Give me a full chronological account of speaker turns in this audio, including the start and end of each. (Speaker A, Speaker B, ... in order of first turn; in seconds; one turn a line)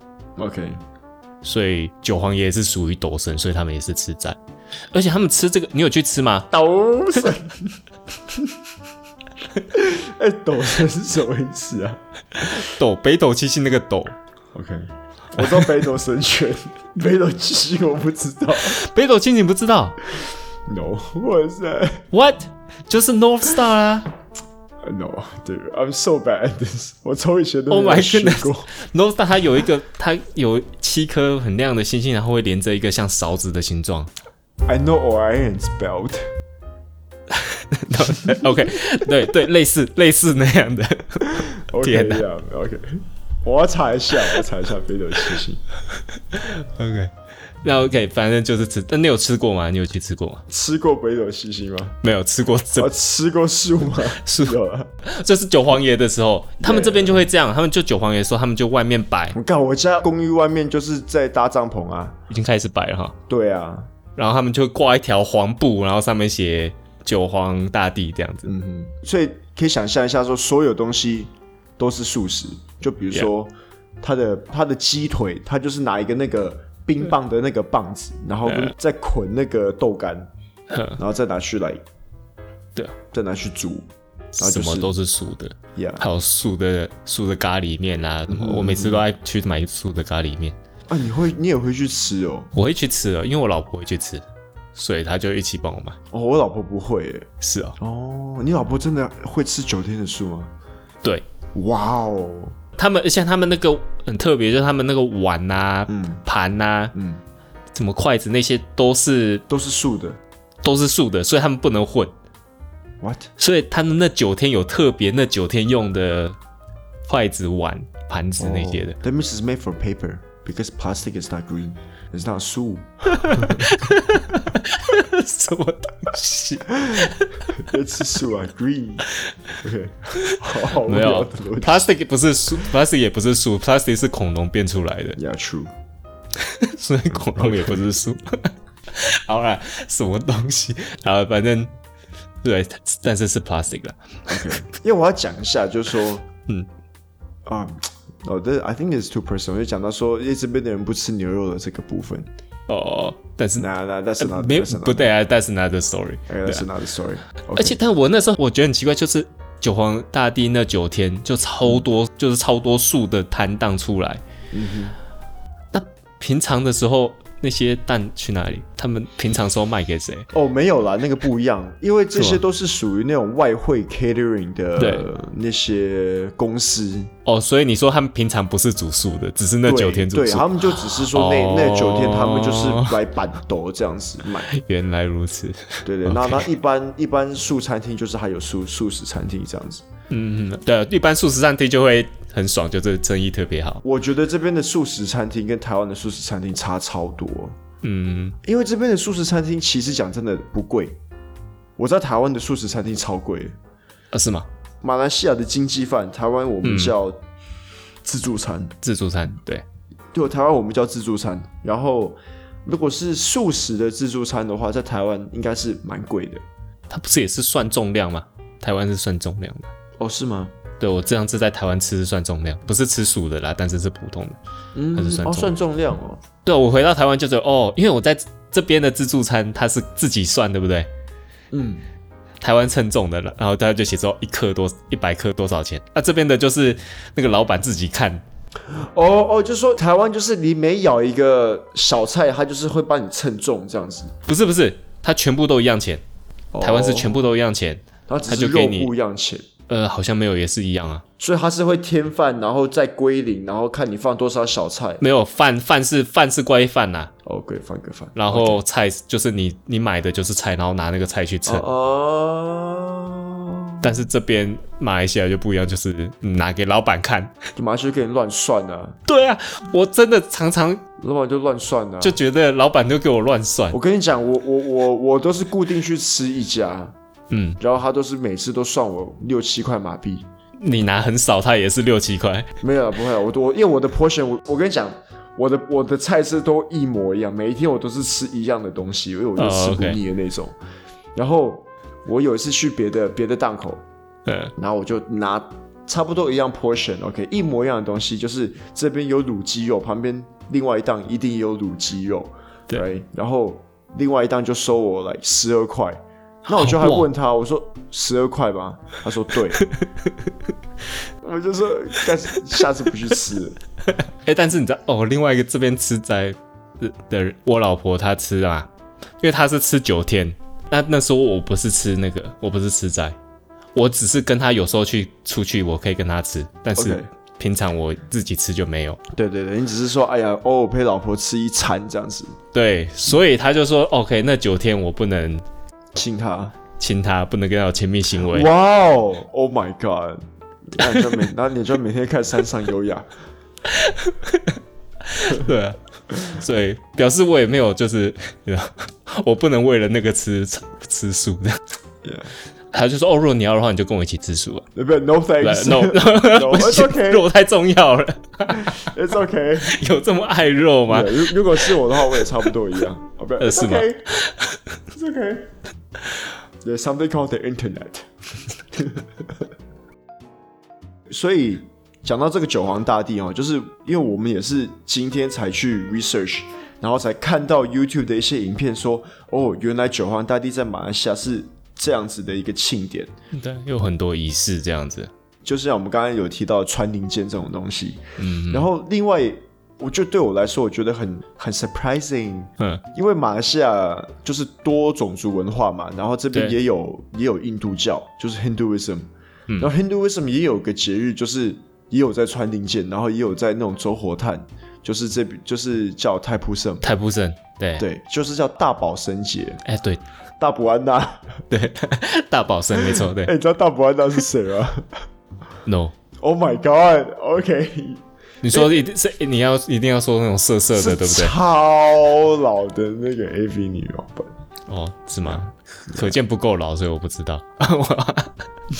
Speaker A: 0.4-0.8
Speaker B: 1.4-4.4
Speaker B: 4.9-6.5
Speaker A: 6.5-7.8
Speaker A: 8.3-8.6
Speaker A: 9.7-12.0
Speaker B: 12.4-14.1
Speaker A: 14.5-18.8
Speaker B: 15.4-15.6
Speaker B: 18.5-20.0
Speaker A: 20.2-22.1
Speaker B: 22.1-24.1
Speaker A: 24.8-28.7
Speaker B: 27.7-34.1
Speaker A: 34.6-36.3
Speaker B: 37.3-42.2
Speaker A: 41.3-45.6
Speaker B: 46.3-50.4
Speaker A: 50.5-52.0
Speaker B: 52.0-52.9
Speaker A: 52.8-54.9
Speaker B: 54.2-59.4
Speaker A: 56.6-57.3
Speaker A: 59.3-62.2
Speaker B: 62.3-63.2
Speaker A: 63.3-63.9
Speaker B: 64.2-68.5
Speaker A: 68.5-80.3
Speaker B: 78.5-78.7
Speaker B: 80.7-81.0
Speaker A: 81.0-81.8
Speaker A: 83.1-84.9
Speaker B: 84.3-90.5
Speaker A: 85.7-86.0
Speaker A: 88.3-89.0
Speaker A: 90.9-92.5
Speaker B: 92.5-94.2
Speaker B: 94.7-96.0
Speaker A: 96.1-100.5
Speaker B: 97.4-97.8
Speaker A: 101.5-102.5
Speaker B: 102.8-106.9
Speaker A: 105.9-106.2
Speaker A: 106.9-107.2
Speaker B: 107.7-109.5
Speaker A: 109.5-110.2
Speaker B: 110.6-112.1
Speaker A: 113.0-113.3
Speaker B: 113.4-116.4
Speaker B: 117.1-119.0
Speaker A: 118.4-123.9
Speaker B: 123.1-127.6
Speaker A: 126.8-129.1
Speaker B: 129.1-129.3
Speaker A: 129.6-131.9
Speaker B: 130.2-135.2
Speaker A: 135.2-135.7
Speaker B: 136.4-141.7
Speaker A: 137.3-137.8
Speaker B: 142.4-144.6
Speaker A: 144.3-146.2
Speaker A: 147.4-152.3
Speaker B: 152.7-153.7
Speaker A: 153.6-155.1
Speaker B: 154.2-156.7
Speaker A: 156.3-157.8
Speaker B: 157.5-164.2
Speaker A: 164.5-164.9
Speaker B: 165.7-170.3
Speaker A: 170.3-177.1
Speaker B: 172.2-172.4
Speaker B: 174.8-175.1
Speaker B: 177.2-183.0
Speaker A: 179.6-184.5
Speaker B: 184.5-186.5
Speaker A: 185.8-189.8
Speaker B: 190.1-193.8
Speaker A: 193.8-197.6
Speaker B: 197.8-198.4
Speaker A: 198.4-201.0
Speaker A: 201.8-203.6
Speaker B: 204.1-204.5
Speaker A: 204.8-207.2
Speaker B: 206.6-206.9
Speaker A: 208.0-208.8
Speaker B: 208.8-209.6
Speaker A: 210.1-216.4
Speaker B: 216.9-219.7
Speaker A: 220.0-220.5
Speaker B: 220.8-224.4
Speaker A: 224.7-226.2
Speaker B: 224.9-225.5
Speaker B: 226.4-230.9
Speaker A: 231.5-231.8
Speaker B: 232.4-238.2
Speaker A: 238.7-244.1
Speaker B: 244.2-246.0
Speaker A: 246.5-247.2
Speaker B: 246.6-248.9
Speaker A: 248.1-249.4
Speaker B: 249.7-251.0
Speaker A: 251.2-255.0
Speaker B: 255.0-257.1
Speaker A: 257.2-258.6
Speaker B: 258.1-261.6
Speaker A: 261.4-264.1
Speaker B: 263.8-267.3
Speaker A: 267.6-269.0
Speaker B: 269.1-270.8
Speaker A: 271.0-272.2
Speaker B: 272.0-273.8
Speaker A: 273.7-276.9
Speaker B: 277.3-277.6
Speaker A: 277.6-280.3
Speaker B: 280.6-282.5
Speaker A: 282.6-290.6
Speaker B: 289.4-290.0
Speaker A: 291.1-293.8
Speaker B: 294.2-294.5
Speaker A: 294.6-309.6
Speaker B: 306.5-307.1
Speaker B: 309.6-310.1
Speaker A: 311.2-313.6
Speaker B: 314.2-318.7
Speaker B: 319.2-323.2
Speaker B: 323.7-329.0
Speaker A: 326.8-327.1
Speaker A: 329.1-332.4
Speaker B: 332.5-335.4
Speaker A: 335.9-336.5
Speaker B: 336.8-338.5
Speaker A: 338.2-343.1
Speaker B: 340.8-341.1
Speaker B: 343.6-351.6
Speaker A: 352.0-352.3
Speaker B: 352.7-354.6
Speaker A: 354.7-357.3
Speaker B: 355.4-358.9
Speaker A: 358.5-359.8
Speaker B: 359.6-362.4
Speaker A: 360.9-364.1
Speaker B: 363.4-364.6
Speaker A: 364.9-365.5
Speaker A: 366.6-369.5
Speaker A: 371.1-383.1
Speaker B: 383.3-385.1
Speaker A: 385.4-399.1
Speaker B: 388.2-388.7
Speaker A: 399.6-406.9
Speaker B: 406.8-407.9
Speaker A: 407.8-409.6
Speaker B: 409.6-410.0
Speaker A: 410.4-411.4
Speaker B: 411.5-413.3
Speaker A: 412.8-415.0
Speaker B: 415.6-415.9
Speaker A: 416.2-418.8
Speaker B: 418.4-421.3
Speaker A: 420.7-424.3
Speaker B: 424.7-428.4